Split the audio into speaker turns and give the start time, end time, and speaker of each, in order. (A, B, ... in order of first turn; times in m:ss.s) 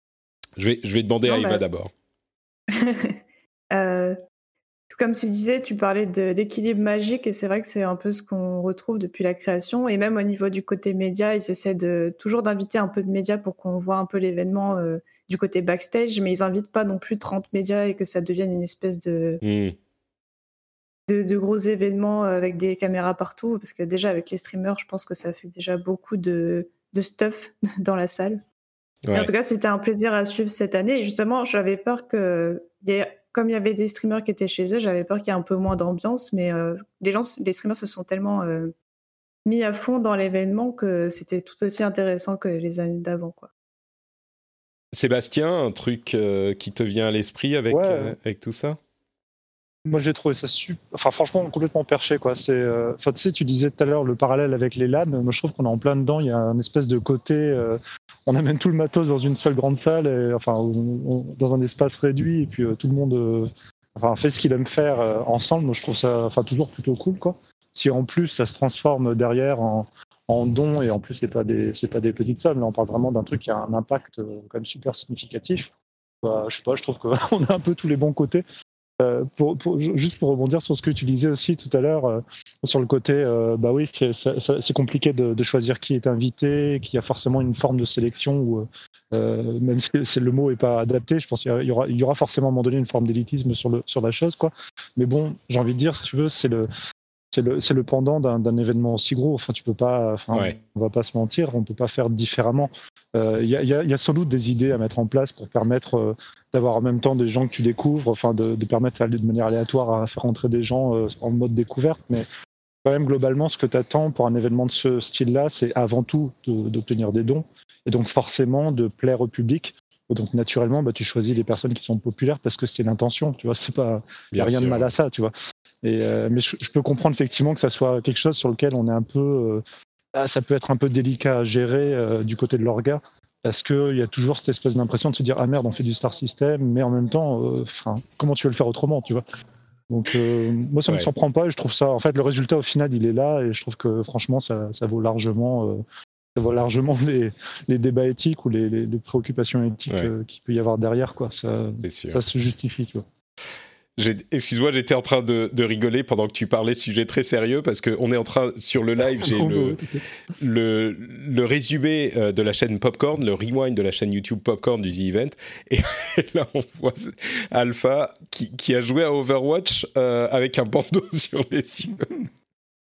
0:00.6-0:01.9 A
0:01.2-0:01.6 B
0:02.7-0:03.2 B
0:03.7-0:04.2 B
0:04.9-0:19.4 B
0:19.4-0:19.8 A
0:21.1-0:28.4 B
0:29.1-0:29.3 A
0:29.1-0:38.7 B
0:39.4-0:43.5 B
0:44.9-0:48.8 A
0:47.7-0:48.2 C
0:49.9-1:15.7 C
1:16.2-1:18.4 C
1:19.0-1:36.7 C
1:37.3-1:52.3 C
1:52.8-2:09.6 C
2:04.3-2:04.9 A
2:10.1-2:19.2 C
2:19.9-2:25.8 C
2:26.4-2:33.0 C
2:31.8-2:32.2 A
2:34.0-2:39.8 A
2:39.2-2:40.0 C
2:40.4-2:52.1 A